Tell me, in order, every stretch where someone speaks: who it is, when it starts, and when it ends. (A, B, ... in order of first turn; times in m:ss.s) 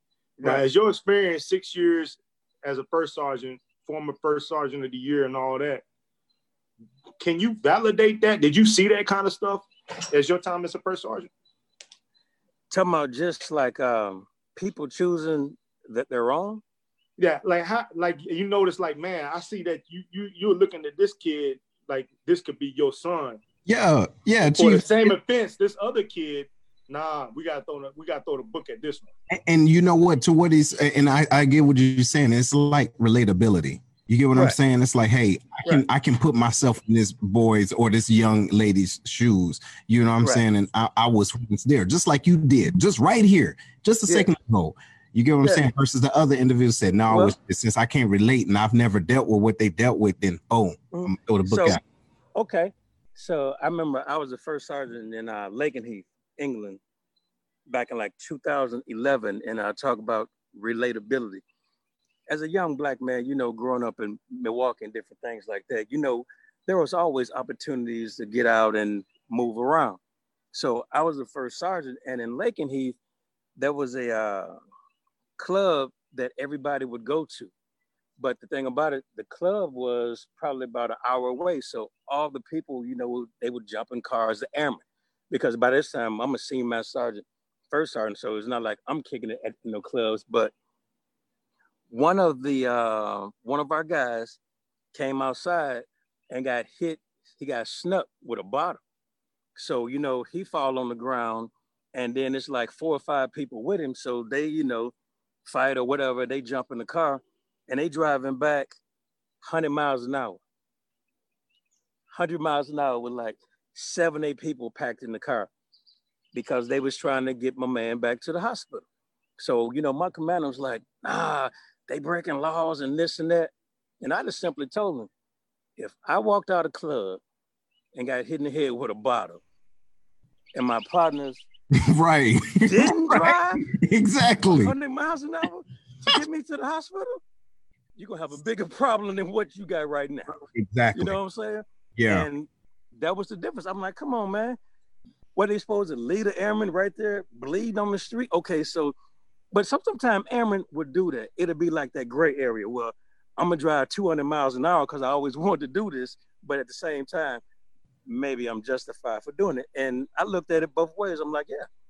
0:00.4-0:05.8 A
0:07.2-0:11.3 A
0:12.7-0:16.6 B
0:17.2-0:23.4 A
0:23.7-0:25.2 C
0:24.5-0:29.1 A
0:29.3-0:51.8 C
0:47.1-0:47.4 B
0:50.9-0:51.8 B
0:52.4-0:56.8 B
0:57.7-1:01.4 B
1:02.3-1:10.0 B
1:10.5-1:13.0 B
1:13.6-1:14.6 B
1:15.4-1:17.5 B
1:18.2-1:30.5 B
1:31.9-1:34.4 B
1:34.9-1:38.8 B
1:39.6-1:44.9 B
1:45.4-1:48.7 B
1:49.4-1:50.4 B
1:52.1-1:55.5 B
1:56.3-1:58.8 B
1:59.4-2:05.1 B
2:05.8-2:07.2 B
2:08.0-2:09.4 B
2:10.5-2:11.4 B
2:11.8-2:14.8 C
2:12.7-2:13.6 B
2:14.6-2:17.2 B
2:18.0-2:20.4 B
2:20.3-2:21.2 C
2:20.9-2:24.6 B
2:22.0-2:22.3 C
2:25.4-2:28.9 B
2:29.5-2:37.4 B
2:38.1-2:41.7 B